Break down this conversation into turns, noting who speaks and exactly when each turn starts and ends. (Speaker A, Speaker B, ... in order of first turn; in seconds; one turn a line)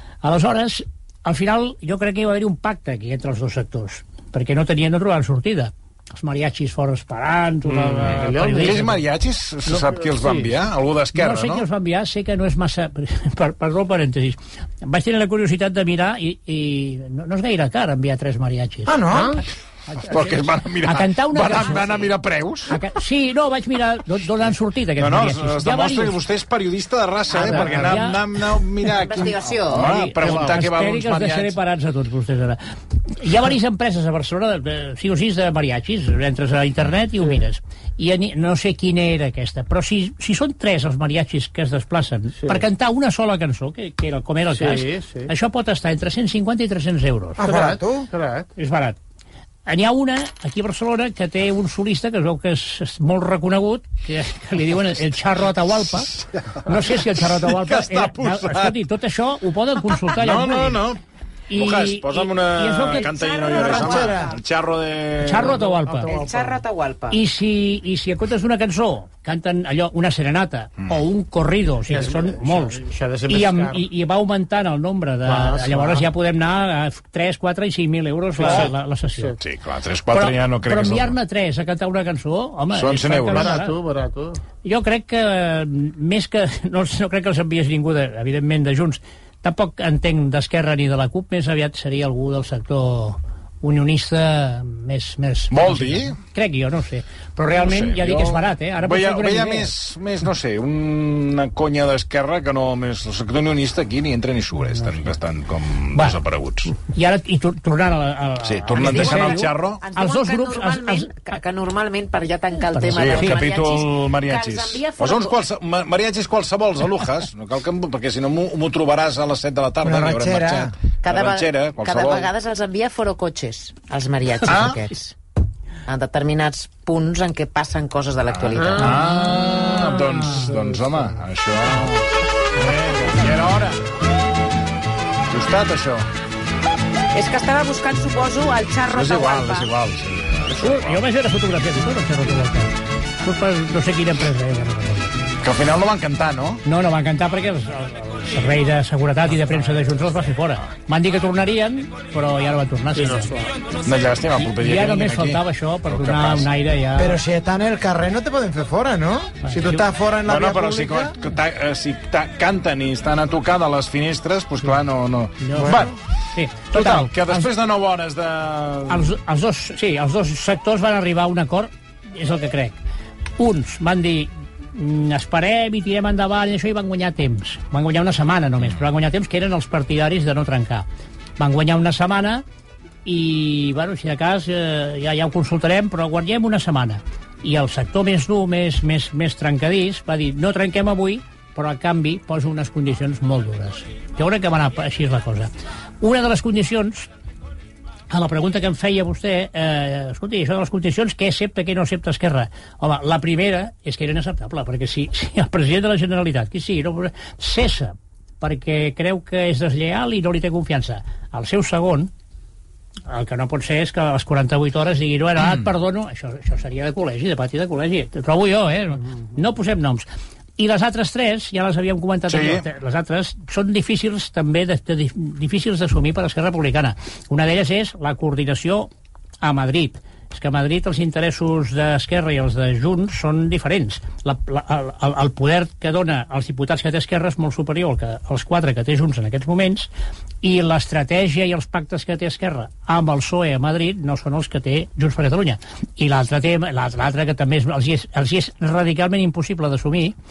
Speaker A: 0.2-8.8
Speaker B: 7.7-9.0
Speaker C: 8.0-11.7
Speaker B: 9.7-10.5
Speaker A: 11.2-19.0
Speaker D: 18.9-19.4
Speaker B: 19.1-19.4
Speaker A: 19.9-22.1
Speaker C: 20.0-22.8
Speaker A: 22.7-26.2
Speaker C: 25.0-31.6
Speaker B: 27.4-28.0
Speaker A: 27.4-28.2
Speaker E: 28.9-29.9
Speaker A: 29.7-47.4
Speaker B: 30.2-30.6
Speaker B: 44.5-45.3
Speaker D: 47.4-48.1
Speaker B: 47.4-48.5
Speaker A: 48.6-49.0
Speaker A: 49.7-56.1
Speaker C: 55.7-58.8
Speaker A: 56.6-60.8
Speaker C: 60.1-61.0
Speaker A: 61.5-64.2
Speaker C: 61.5-65.6
Speaker E: 62.9-64.4
Speaker D: 63.5-64.3
Speaker A: 65.2-66.1
Speaker E: 65.8-67.2
Speaker D: 66.1-66.3
Speaker A: 67.1-79.4
Speaker B: 71.9-73.8
Speaker B: 75.2-76.1
Speaker B: 78.4-79.4
Speaker C: 79.4-81.2
Speaker A: 80.1-83.8
Speaker C: 82.7-83.6
Speaker B: 83.3-84.4
Speaker A: 84.6-99.7
Speaker C: 95.5-96.2
Speaker C: 97.5-106.8
Speaker A: 106.9-111.2
Speaker C: 108.4-109.8
Speaker E: 108.8-115.4
Speaker A: 112.7-113.4
Speaker C: 112.9-122.3
Speaker D: 119.8-120.7
Speaker E: 121.0-125.2
Speaker C: 124.5-124.8
Speaker E: 125.9-129.0
Speaker C: 128.3-133.8
Speaker B: 128.6-129.0
Speaker C: 135.3-136.1
Speaker E: 137.1-139.7
Speaker C: 138.9-141.1
Speaker A: 140.6-145.2
Speaker C: 145.4-146.6
Speaker A: 146.7-153.3
Speaker B: 152.9-153.5
Speaker C: 153.8-156.5
Speaker A: 154.4-157.2
Speaker D: 157.0-161.2
Speaker A: 159.4-159.8
Speaker C: 160.3-166.0
Speaker A: 165.4-167.4
Speaker B: 165.6-165.9
Speaker C: 166.7-169.1
Speaker B: 166.8-167.1
Speaker A: 168.9-172.8
Speaker A: 173.4-180.8
Speaker A: 181.4-182.4
Speaker A: 183.1-197.1
Speaker A: 198.1-212.1
Speaker A: 213.1-228.9
Speaker C: 222.3-222.7
Speaker A: 229.4-239.9
Speaker A: 240.4-250.2